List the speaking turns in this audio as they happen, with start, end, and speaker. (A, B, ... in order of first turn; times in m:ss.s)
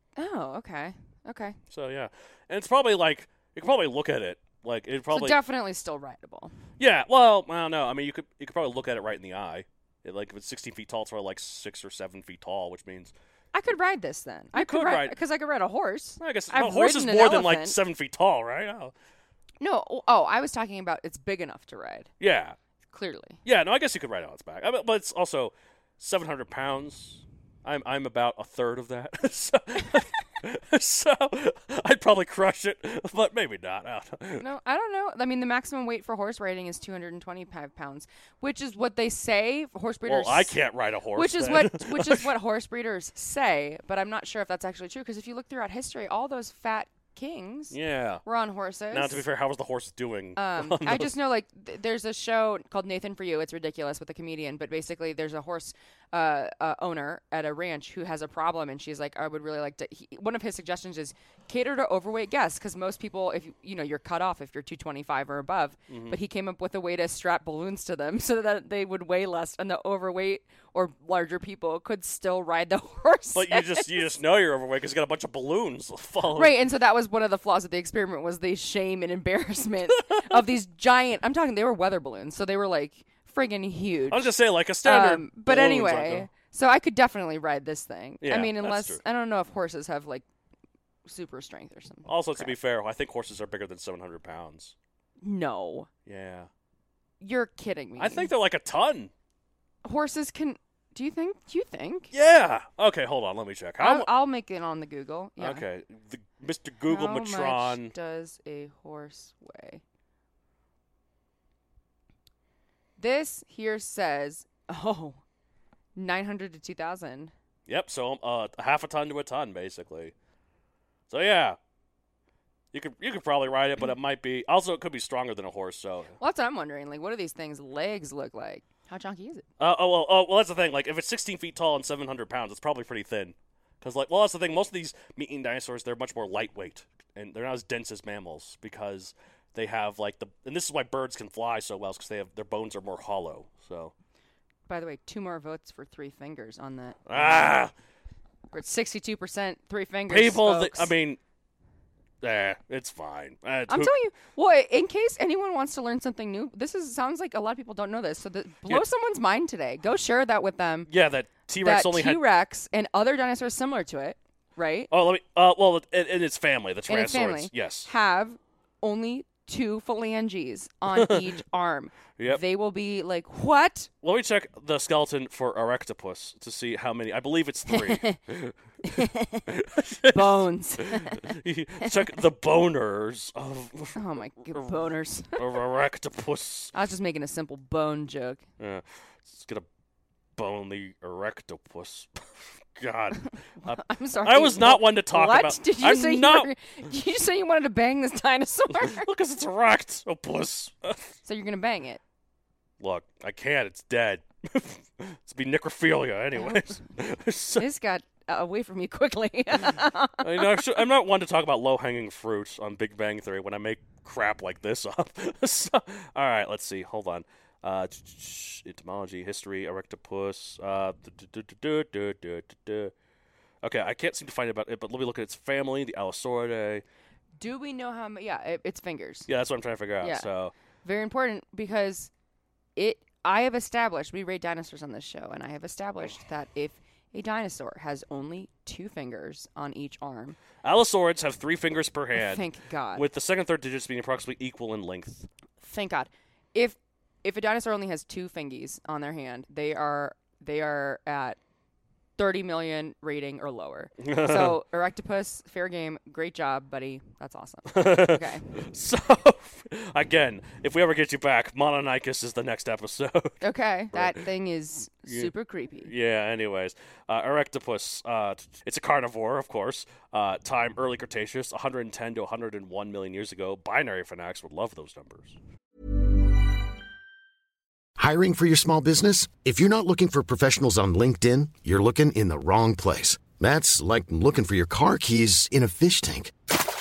0:00.2-0:01.6 A
0:01.7-0:05.4 B
0:05.1-0:06.5 A
0:06.8-0:13.1 B
0:13.5-0:17.8 A
0:14.5-0:15.2 B
0:16.2-0:18.9 B
0:19.6-0:22.1 A
0:22.2-0:22.6 B
0:22.9-0:23.4 A
0:23.4-0:34.4 B
0:34.4-0:40.5 A
0:40.0-0:42.3 B
0:41.1-0:49.2 A
0:47.7-0:48.2 B
0:48.9-0:51.1 B
0:50.4-1:14.0 A
1:05.9-1:06.2 B
1:13.3-1:16.5 B
1:16.3-1:24.3 A
1:20.1-1:20.4 B
1:24.1-1:26.3 B
1:24.8-1:30.2 A
1:28.2-1:29.0 B
1:31.0-1:32.5 A
1:32.0-1:34.7 B
1:35.2-1:35.9 A
1:36.0-1:36.5 B
1:37.2-1:38.3 A
1:38.0-1:39.1 B
1:39.8-1:42.1 A
1:42.1-1:44.1 B
1:43.8-1:45.6 A
1:45.4-1:47.9 B
1:46.9-1:49.8 A
1:53.0-1:55.2 A
1:55.9-1:57.3 A
1:57.7-2:00.1 B
2:01.1-2:01.6 B
2:02.7-2:06.2 B
2:06.2-2:09.4 A
2:09.6-2:23.9 B
2:24.7-2:27.6 A
2:27.1-2:27.7 B
2:28.5-2:30.9 A
2:30.1-2:31.2 B
2:32.2-2:33.9 B
2:33.7-2:40.9 A
2:40.9-2:42.2 B
2:41.6-2:44.9 A
2:44.9-2:47.9 B
2:46.9-2:53.9 A
2:50.9-2:51.3 B
2:54.0-3:04.8 B
2:57.7-2:58.2 A
2:58.8-2:59.4 A
3:00.1-3:02.0 A
3:03.9-3:05.4 A
3:05.3-3:06.7 B
3:06.7-3:08.4 A
3:08.6-3:09.6 B
3:10.4-3:16.5 B
3:13.6-3:19.1 A
3:18.7-3:21.2 B
3:21.2-3:22.0 A
3:22.8-3:27.7 B
3:26.4-3:26.8 A
3:27.6-3:30.6 A
3:30.2-3:42.9 B
3:43.6-3:46.8 B
3:47.4-3:49.3 A
3:49.3-3:50.5 B
3:50.0-3:50.3 A
3:50.8-3:52.1 A
3:52.8-4:00.4 A
4:00.6-4:05.3 B
4:02.1-4:03.0 A
4:05.6-4:11.4 A
4:12.2-4:18.5 A
4:14.0-4:14.6 B
4:17.7-4:23.4 B
4:23.4-4:25.9 A
4:23.9-4:24.2 B
4:25.8-4:35.4 B
4:38.0-4:46.3 C